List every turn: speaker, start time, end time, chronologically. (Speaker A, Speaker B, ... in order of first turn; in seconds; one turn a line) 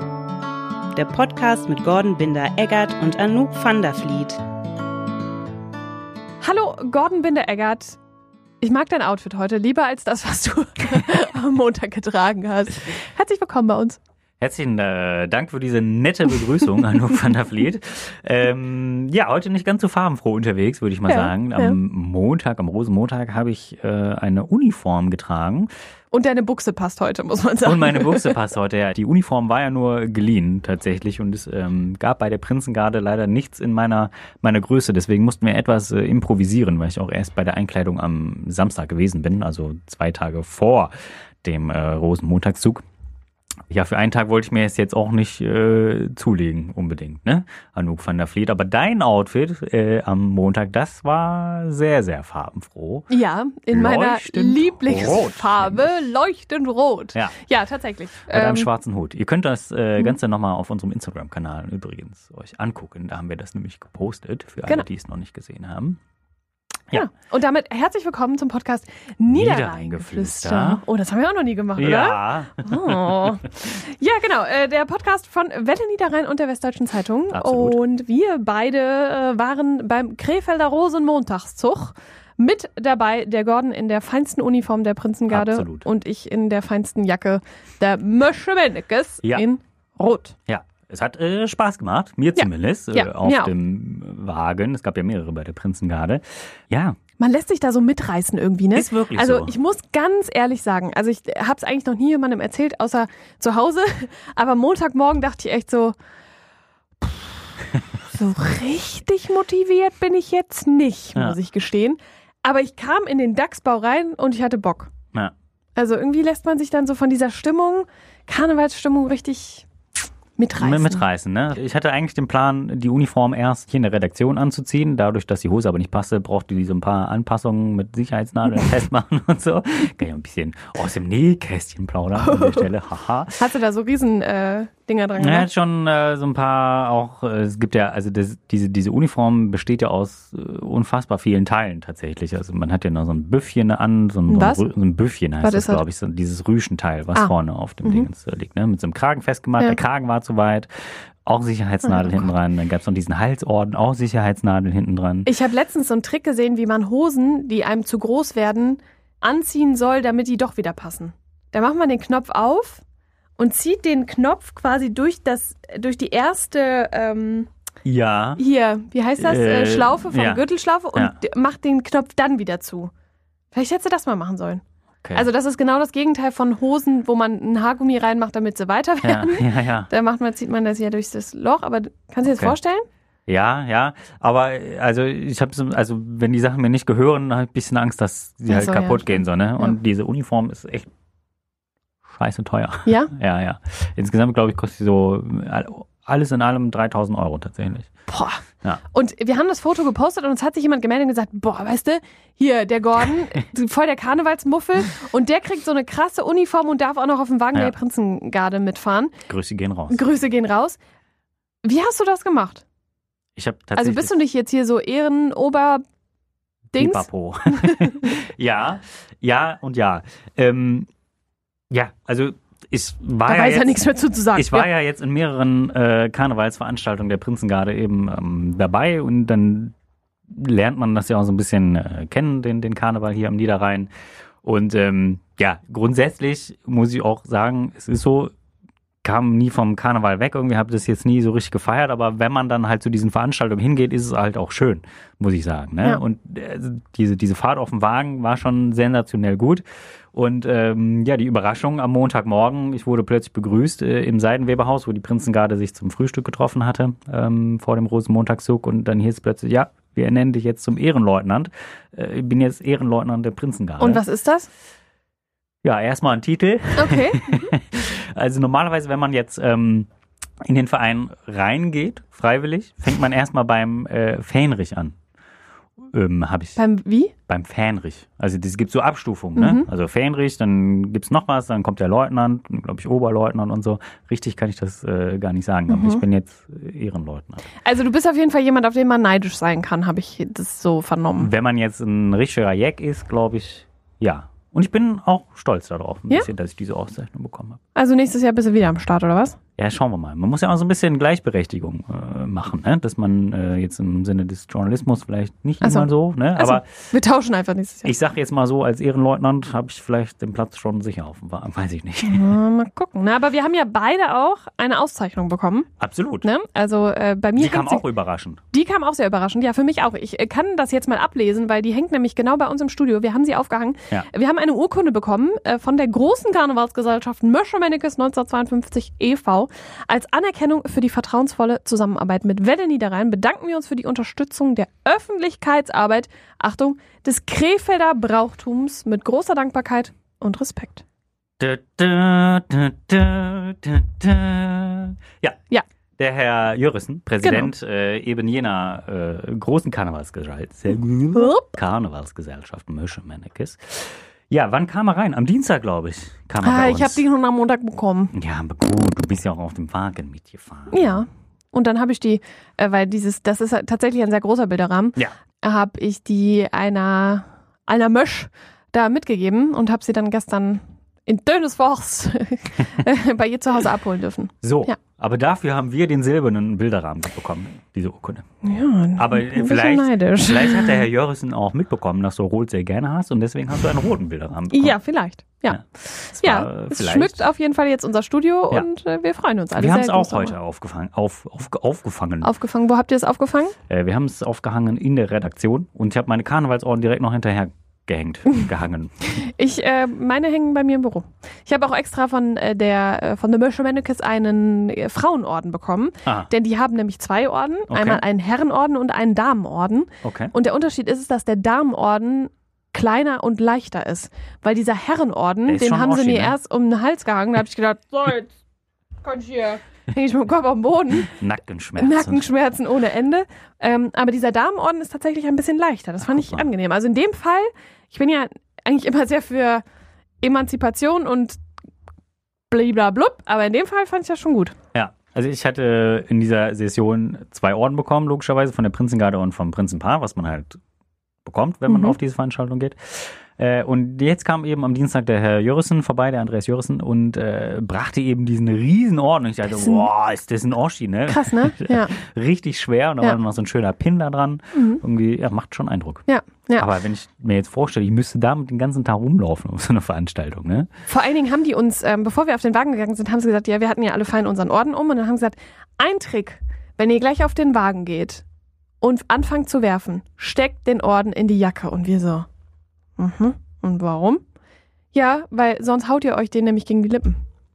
Speaker A: 0.9-4.4
Speaker B: 6.4-8.0
Speaker B: 8.6-14.0
Speaker C: 14.4-25.7
Speaker B: 21.1-21.8
Speaker B: 26.1-28.3
Speaker C: 27.6-40.9
Speaker C: 41.4-42.8
Speaker C: 43.7-53.1
Speaker B: 53.1-58.7
Speaker C: 53.7-55.9
Speaker C: 58.3-66.0
Speaker B: 66.9-90.3
Speaker C: 69.3-70.8
Speaker C: 71.8-73.3
Speaker C: 77.3-77.8
Speaker C: 85.3-85.8
Speaker C: 90.5-97.0
Speaker B: 92.4-93.5
Speaker B: 97.2-106.0
Speaker C: 98.7-99.5
Speaker B: 108.1-114.9
Speaker B: 115.8-119.7
Speaker B: 120.4-121.0
Speaker C: 120.6-133.4
Speaker B: 132.3-132.6
Speaker B: 133.4-135.5
Speaker C: 135.2-155.3
Speaker B: 144.3-144.6
Speaker B: 145.4-145.8
Speaker B: 151.8-152.2
Speaker B: 155.2-162.8
Speaker B: 163.4-167.5
Speaker C: 167.8-168.4
Speaker B: 168.4-172.9
Speaker C: 169.2-170.4
Speaker B: 173.5-174.6
Speaker B: 175.1-182.8
Speaker C: 179.0-179.9
Speaker C: 182.3-182.5
Speaker C: 183.3-190.9
Speaker B: 188.5-189.8
Speaker C: 192.1-197.9
Speaker B: 192.8-193.1
Speaker B: 198.1-209.2
Speaker C: 209.3-210.1
Speaker B: 209.9-210.8
Speaker B: 211.6-212.6
Speaker C: 213.3-214.2
Speaker B: 213.8-215.8
Speaker B: 216.7-217.9
Speaker C: 216.7-220.9
Speaker C: 221.7-223.8
Speaker B: 223.2-224.7
Speaker C: 224.3-229.7
Speaker C: 230.3-233.9
Speaker C: 234.4-238.3
Speaker C: 239.0-264.0
Speaker B: 263.8-264.5
Speaker C: 265.6-269.9
Speaker B: 266.8-267.4
Speaker C: 270.4-275.0
Speaker C: 275.9-276.6
Speaker B: 276.6-277.1
Speaker C: 277.3-287.4
Speaker B: 279.4-279.7
Speaker B: 285.7-286.0
Speaker B: 287.6-291.3
Speaker C: 291.2-297.6
Speaker B: 297.7-299.4
Speaker C: 299.6-306.7
Speaker B: 305.6-307.9
Speaker C: 307.8-312.4
Speaker B: 312.0-315.7
Speaker C: 315.8-316.3
Speaker B: 316.2-317.8
Speaker C: 317.4-318.4
Speaker B: 318.5-340.8
Speaker C: 341.4-345.4
Speaker C: 346.0-357.0
Speaker B: 347.2-347.5
Speaker B: 351.1-351.5
Speaker B: 356.4-358.1
Speaker C: 358.1-361.0
Speaker B: 360.7-374.8
Speaker C: 374.4-378.2
Speaker B: 378.4-380.8
Speaker C: 378.9-384.8
Speaker B: 384.5-390.4
Speaker C: 385.5-387.3
Speaker C: 389.5-392.3
Speaker B: 392.2-393.6
Speaker C: 393.7-399.2
Speaker B: 399.1-418.3
Speaker C: 407.7-408.0
Speaker C: 410.0-410.3
Speaker C: 415.4-416.4
Speaker B: 419.0-421.1
Speaker C: 420.9-422.3
Speaker B: 421.8-429.6
Speaker C: 426.0-426.5
Speaker B: 430.2-431.4
Speaker B: 432.5-434.6
Speaker C: 434.7-440.6
Speaker C: 441.2-456.1
Speaker B: 441.7-441.9
Speaker B: 451.1-452.0
Speaker B: 454.5-454.8
Speaker B: 456.1-456.7
Speaker C: 456.6-460.7
Speaker B: 460.9-468.2
Speaker B: 468.8-472.3
Speaker B: 473.0-474.2
Speaker B: 474.9-477.2